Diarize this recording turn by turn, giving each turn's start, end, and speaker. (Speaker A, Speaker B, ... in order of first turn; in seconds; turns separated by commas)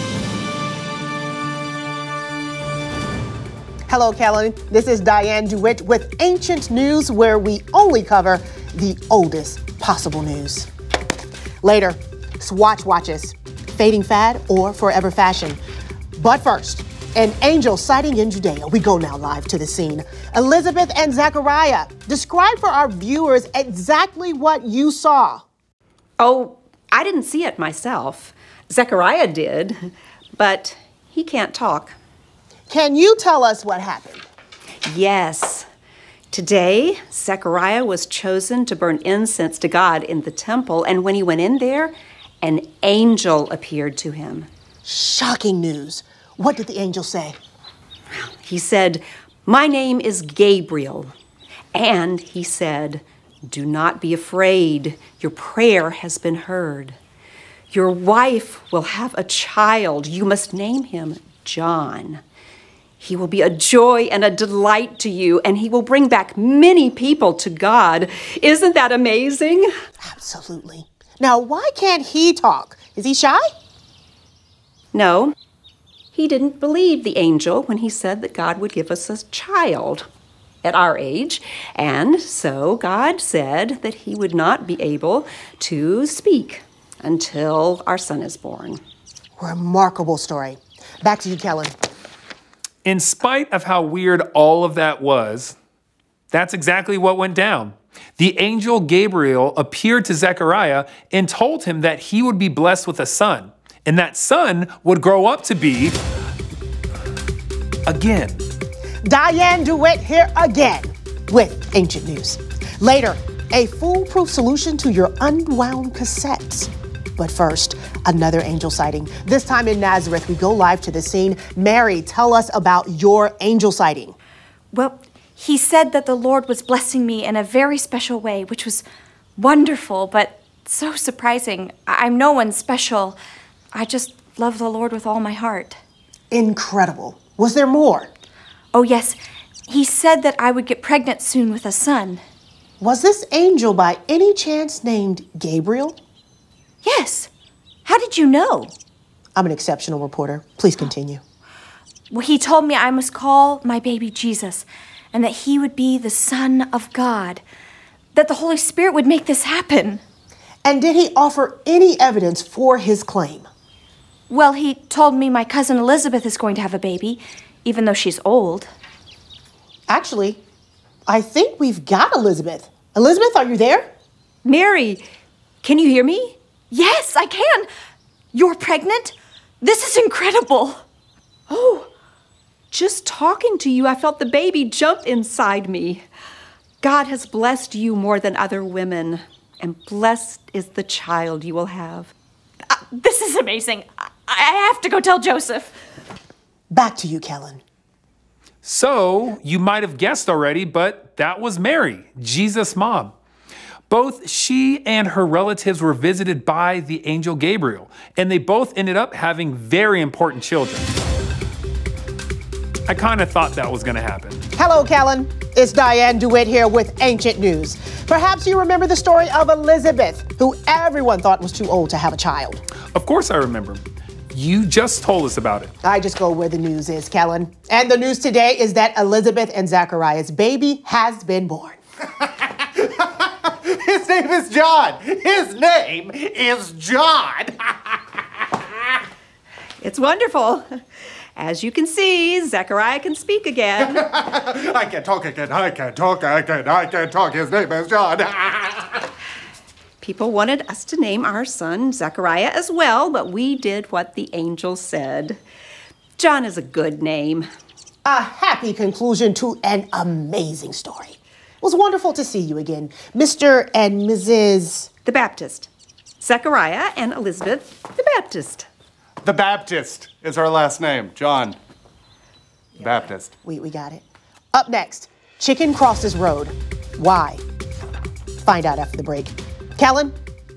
Speaker A: 3.9-10.7, Speaker A: 11.6-15.6, Speaker A: 16.2-25.4, Speaker B: 26.2-31.9, Speaker A: 32.7-34.2, Speaker B: 34.9-35.7, Speaker B: 36.3-44.5, Speaker A: 44.9-47.4, Speaker B: 48.2-51.1, Speaker B: 51.7-57.0, Speaker B: 57.7-62.2, Speaker B: 63.0-69.7, Speaker A: 70.0-73.5, Speaker B: 74.9-75.3, Speaker B: 76.1-80.1, Speaker B: 80.6-88.8, Speaker A: 89.4-91.7, Speaker C: 92.8-95.6, Speaker C: 96.3-106.0, Speaker C: 107.9-108.5, Speaker A: 109.0-124.2, Speaker D: 124.7-128.8, Speaker D: 129.4-133.2, Speaker D: 133.7-135.8, Speaker A: 136.3-138.1, Speaker D: 138.7-142.2, Speaker A: 142.8-146.0, Speaker D: 146.8-147.3, Speaker D: 147.8-148.7, Speaker A: 149.3-151.2, Speaker D: 152.1-157.4, Speaker D: 158.1-160.0, Speaker A: 160.7-163.5, Speaker D: 164.3-168.7, Speaker A: 169.9-170.4, Speaker A: 171.1-173.9, Speaker B: 174.4-175.0, Speaker B: 175.6-176.4, Speaker D: 176.7-177.7, Speaker D: 178.3-180.8, Speaker D: 181.5-181.9, Speaker B: 182.7-186.1, Speaker B: 186.8-192.1, Speaker D: 192.7-195.7, Speaker A: 196.7-197.6, Speaker C: 198.6-203.1, Speaker C: 203.9-210.9, Speaker C: 212.9-214.4, Speaker A: 214.5-222.6, Speaker C: 222.9-225.7, Speaker A: 225.8-231.8, Speaker E: 232.2-238.0, Speaker B: 239.8-240.7, Speaker B: 241.4-244.0, Speaker E: 243.8-249.0, Speaker B: 250.0-255.4, Speaker B: 256.2-257.5, Speaker A: 258.1-264.9, Speaker B: 265.0-265.7, Speaker B: 266.2-268.7, Speaker E: 269.2-271.6, Speaker E: 272.8-273.4, Speaker A: 273.4-274.0, Speaker A: 274.5-277.4, Speaker A: 278.4-280.2